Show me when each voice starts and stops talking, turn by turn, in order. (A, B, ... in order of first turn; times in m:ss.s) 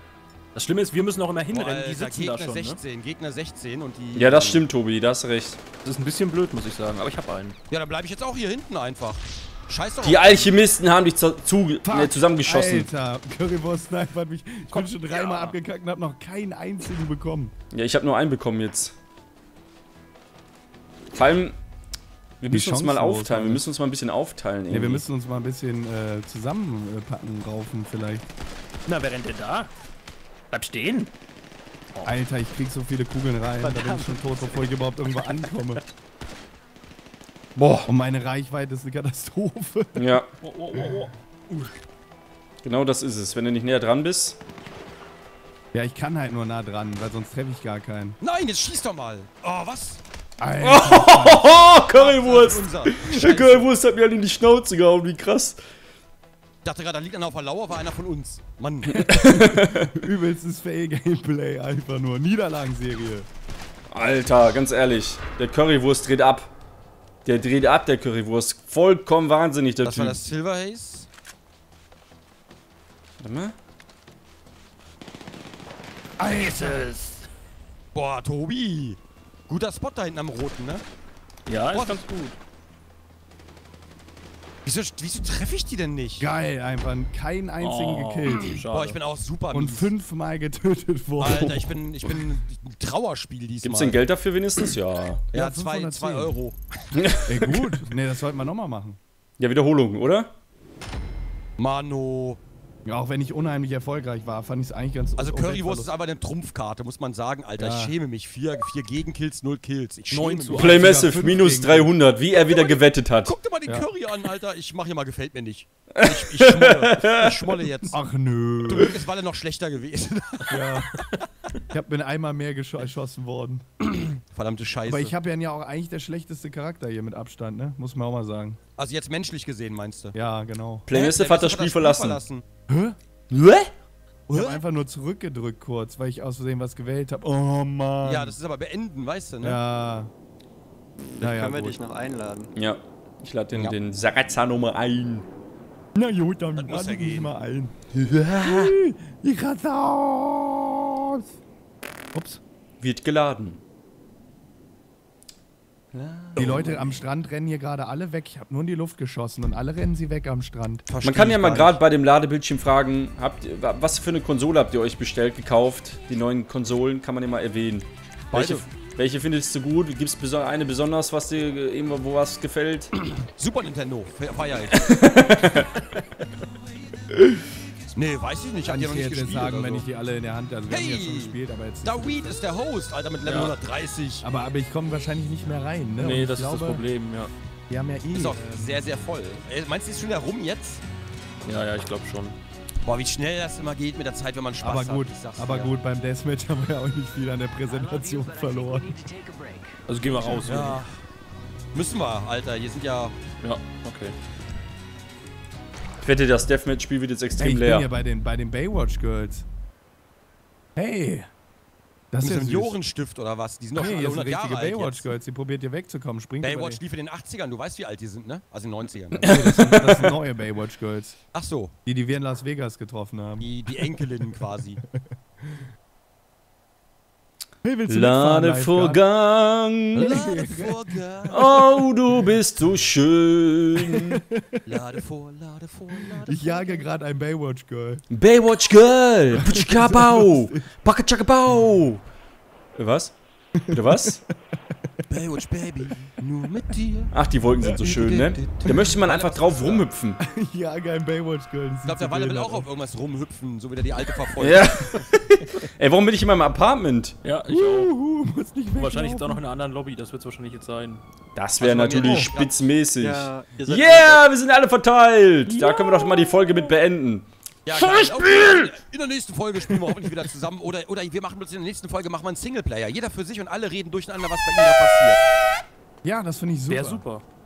0:00.5-0:02.8 A
0:01.5-0:04.6 B
0:04.1-0:05.6 C
0:05.8-0:07.6 A
0:07.7-0:10.5 B
0:10.0-0:12.9 C
0:11.8-0:17.5 D
0:14.7-0:15.5 A
0:17.7-0:18.9 C
0:21.1-0:21.6 C
0:22.4-0:25.0 C
0:22.5-0:23.6 D
0:24.7-0:28.2 D
0:28.9-0:29.7 A
0:30.5-0:31.1 A
0:32.0-0:35.8 D
0:33.6-0:34.7 A
0:35.2-0:35.8 A
0:37.6-0:37.9 C
0:37.8-0:40.1 D
0:40.0-0:40.3 C
0:40.4-0:41.8 A
0:42.6-0:44.4 C
0:45.7-0:48.2 D
0:48.2-0:50.0 B
0:50.4-0:51.8 D
0:50.6-0:55.6 C
0:51.9-0:53.7 B
0:56.6-0:59.0 B
0:58.9-1:03.3 D
0:59.1-0:59.9 C
1:03.9-1:06.5 C
1:07.2-1:10.2 C
1:09.8-1:11.1 B
1:13.2-1:13.5 C
1:16.2-1:16.9 D
1:16.2-1:17.2 A
1:17.9-1:20.8 B
1:21.5-1:22.4 A
1:21.7-1:22.0 B
1:24.6-1:26.3 B
1:26.2-1:28.6 D
1:27.6-1:29.0 A
1:28.7-1:29.9 B
1:29.5-1:31.6 D
1:31.2-1:34.0 B
1:33.6-1:35.2 C
1:35.3-1:36.4 D
1:35.3-1:36.6 B
1:37.0-1:37.6 C
1:37.3-1:39.0 D
1:39.4-1:40.3 C
1:41.6-1:42.4 B
1:42.8-1:45.9 D
1:45.2-1:50.8 B
1:47.6-1:47.9 D
1:50.1-1:50.8 A
1:50.6-1:53.4 C
1:50.6-1:51.9 D
1:52.3-1:58.0 B
1:56.0-1:57.3 C
1:57.9-1:58.9 D
1:58.7-2:00.7 B
2:00.5-2:00.9 D
2:01.7-2:04.0 D
2:04.3-2:05.1 B
2:04.8-2:08.6 D
2:08.8-2:10.2 B
2:10.1-2:10.8 D
2:10.8-2:12.2 C
2:10.9-2:12.4 B
2:12.7-2:13.0 D
2:13.3-2:13.7 C
2:14.3-2:18.4 D
2:14.3-2:14.6 B
2:18.0-2:19.6 B
2:19.4-2:20.1 D
2:21.2-2:22.5 E
2:21.2-2:21.8 D
2:22.6-2:25.2 C
2:25.9-2:27.7 D
2:26.6-2:27.3 B
2:27.9-2:28.7 C
2:28.4-2:31.2 D
2:32.1-2:32.4 D
2:32.8-2:33.6 C
2:35.9-2:37.0 B
2:36.4-2:40.8 D
2:40.9-2:41.8 B
2:41.0-2:52.9 C
2:48.3-2:48.6 B
2:53.4-2:54.9 B
2:54.8-2:55.6 C
2:57.9-2:59.9 B
2:58.6-3:02.4 D
3:00.7-3:04.2 B
3:03.2-3:03.5 A
3:04.2-3:06.8 D
3:06.0-3:07.3 A
3:07.7-3:08.8 D
3:08.1-3:10.8 B
3:11.4-3:12.4 A
3:12.8-3:15.7 B
3:14.6-3:19.1 D
3:19.8-3:20.8 A
3:20.4-3:20.9 B
3:21.7-3:23.1 B
3:23.4-3:24.2 A
3:26.0-3:27.9 C
3:27.4-3:29.4 D
3:30.8-3:31.3 D
3:32.1-3:32.7 D
3:32.2-3:35.1 B
3:33.7-3:36.8 D
3:36.4-3:39.3 B
3:39.1-3:41.2 D
3:39.2-3:40.1 C
3:41.3-3:41.7 B
3:41.8-3:43.5 D
3:43.4-3:44.8 B
3:44.9-3:45.6 D
3:47.6-3:49.0 D
3:47.9-3:50.1 C
3:49.9-3:51.6 B
3:50.0-3:51.6 D
3:51.3-3:54.2 C
3:53.9-3:54.6 D
3:54.6-3:56.8 B
3:56.2-3:58.0 D
3:58.1-4:02.0 C
3:59.3-4:00.6 D
4:02.8-4:03.1 C
4:03.6-4:04.2 D
4:03.7-4:04.2 C
4:05.1-4:07.1 B
4:07.1-4:10.2 C
4:07.6-4:08.0 D
4:07.8-4:09.8 B
4:08.6-4:08.9 D
4:10.2-4:12.7 D
4:11.8-4:14.7 B
4:14.4-4:17.1 C
4:17.2-4:17.9 A
4:17.5-4:19.4 D
4:18.7-4:21.0 A
4:21.3-4:28.7 C
4:21.6-4:22.7 B
4:21.9-4:22.3 D
4:23.0-4:24.2 E
4:25.6-4:26.1 A
4:27.6-4:35.2 B
4:36.0-4:37.0 D
4:36.7-4:37.2 A